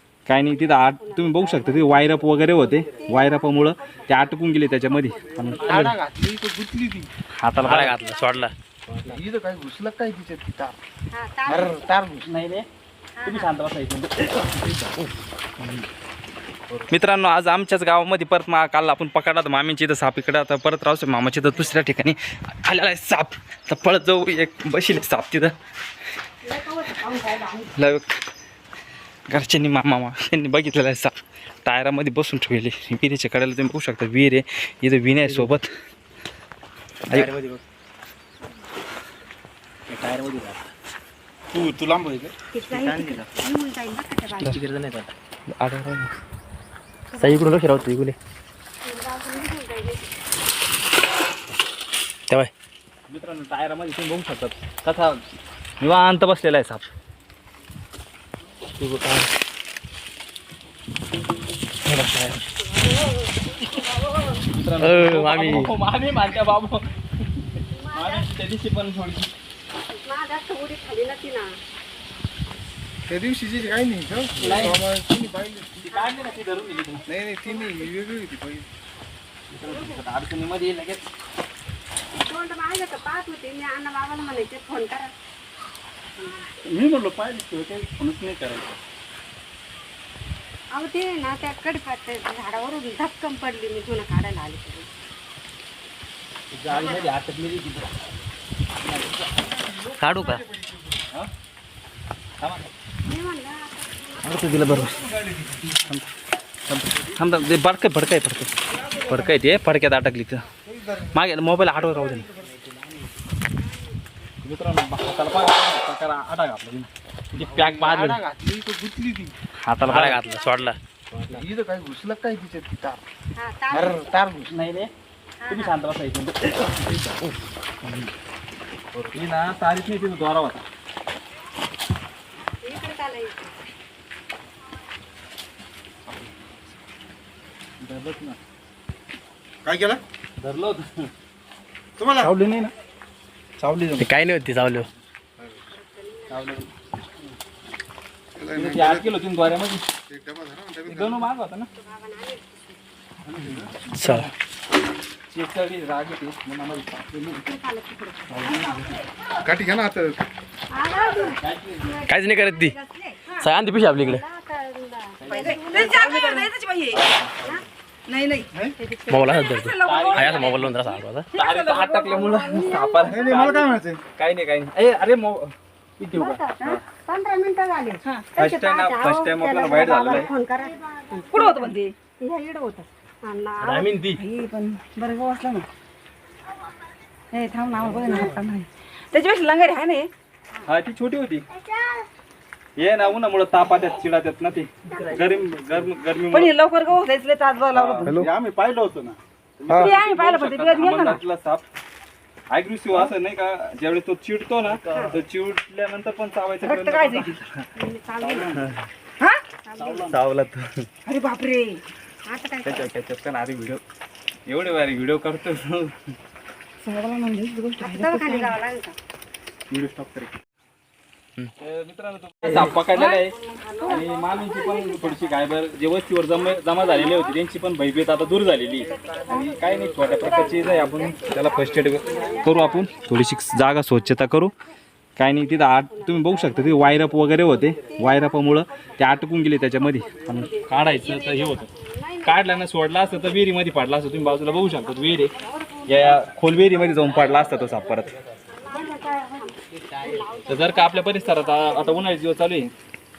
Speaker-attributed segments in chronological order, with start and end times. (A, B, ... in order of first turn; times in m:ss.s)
0:00.3-0:06.0 A
0:00.5-0:05.9 B
0:05.6-0:07.1 C
0:07.4-0:08.0 A
0:07.6-0:09.2 D
0:07.7-0:08.4 B
0:09.0-0:10.7 C
0:11.1-0:11.8 B
0:11.5-0:12.2 C
0:12.2-0:12.7 A
0:13.2-0:13.5 B
0:13.2-0:14.7 A
0:15.6-0:15.8 A
0:16.8-0:25.5 A
0:26.4-0:27.7 B
0:27.7-0:28.1 A
0:29.3-0:31.1 A
0:31.6-0:35.7 A
0:35.2-0:35.6 D
0:37.1-0:37.6 D
0:39.9-0:40.6 D
0:41.5-0:42.3 C
0:42.5-0:44.6 B
0:42.7-0:43.3 D
0:44.4-0:45.1 D
0:45.5-0:46.1 A
0:47.1-0:47.5 B
0:47.2-0:48.2 D
0:48.8-0:50.1 B
0:53.1-0:55.2 A
0:55.8-0:56.8 A
0:58.8-0:59.3 D
1:01.9-1:02.4 D
1:04.4-1:06.8 A
1:04.8-1:05.7 D
1:07.4-1:09.3 A
1:07.7-1:08.3 B
1:10.0-1:11.5 B
1:13.1-1:15.7 C
1:14.4-1:14.8 A
1:15.8-1:17.0 A
1:15.9-1:17.9 B
1:17.1-1:18.7 C
1:19.5-1:21.1 A
1:19.6-1:20.0 B
1:22.1-1:25.1 B
1:26.2-1:26.5 B
1:26.6-1:28.8 A
1:30.7-1:34.9 B
1:36.6-1:37.9 A
1:38.8-1:39.2 A
1:40.0-1:40.4 A
1:42.4-1:42.7 A
1:43.0-1:44.8 B
1:44.2-1:45.0 A
1:46.7-1:50.4 A
1:51.1-1:52.3 A
1:54.4-1:58.2 A
1:57.4-1:59.3 C
1:59.6-2:00.2 A
1:59.8-2:01.4 D
2:00.0-2:00.7 B
2:01.3-2:03.0 C
2:03.4-2:04.1 B
2:03.7-2:04.5 C
2:04.5-2:04.9 A
2:05.4-2:05.8 B
2:05.5-2:07.1 A
2:07.8-2:08.1 A
2:09.0-2:10.6 A
2:12.6-2:13.5 B
2:16.1-2:16.5 A
2:17.8-2:18.4 A
2:19.6-2:20.0 C
2:20.4-2:21.1 A
2:22.0-2:22.3 C
2:22.2-2:22.7 A
2:23.6-2:24.1 A
2:24.0-2:24.9 D
2:25.7-2:26.6 B
2:26.3-2:26.7 A
2:28.4-2:29.0 C
2:28.5-2:29.9 A
2:30.1-2:31.2 C
2:30.8-2:31.7 A
2:31.8-2:32.8 B
2:33.2-2:34.3 A
2:34.0-2:34.2 D
2:35.3-2:37.4 A
2:37.4-2:38.6 B
2:38.3-2:38.9 A
2:39.4-2:40.1 C
2:40.7-2:46.5 B
2:41.4-2:42.0 A
2:42.1-2:42.8 D
2:43.4-2:44.2 D
2:45.2-2:46.0 A
2:45.3-2:47.0 E
2:48.1-2:48.5 E
2:48.8-2:49.2 B
2:49.1-2:51.3 D
2:49.2-2:50.5 E
2:49.8-2:50.7 A
2:51.3-2:55.5 A
2:51.4-2:52.0 E
2:51.8-2:53.8 B
2:53.1-2:54.0 C
2:56.1-3:03.9 B
2:58.0-2:58.3 E
2:58.4-3:00.3 A
3:01.3-3:01.9 E
3:03.6-3:04.2 D
3:04.1-3:05.7 E
3:07.3-3:10.1 E
3:10.6-3:11.4 A
3:11.6-3:12.0 B
3:12.8-3:16.6 A
3:14.9-3:15.4 B
3:16.2-3:18.3 E
3:17.7-3:21.6 A
3:19.7-3:21.2 E
3:22.5-3:27.7 A
3:24.9-3:25.2 B
3:26.6-3:27.4 E
3:27.8-3:28.6 B
3:28.3-3:28.8 A
3:29.6-3:30.1 B
3:29.9-3:30.8 A
3:31.0-3:31.8 E
3:32.2-3:32.9 B
3:32.6-3:33.8 A
3:34.5-3:35.9 A
3:36.8-3:38.6 E
3:37.8-3:39.0 B
3:39.7-3:40.4 A
3:41.6-3:54.5 A
3:42.9-3:43.3 E
3:42.9-3:45.4 B
3:43.8-3:44.1 E
3:46.3-3:47.4 B
3:48.4-3:54.3 B
3:55.2-4:01.7 A
3:55.4-4:03.5 B
4:02.2-4:05.3 A
4:04.2-4:06.2 B
4:05.9-4:08.1 A
4:08.5-4:12.1 B
4:10.4-4:12.7 A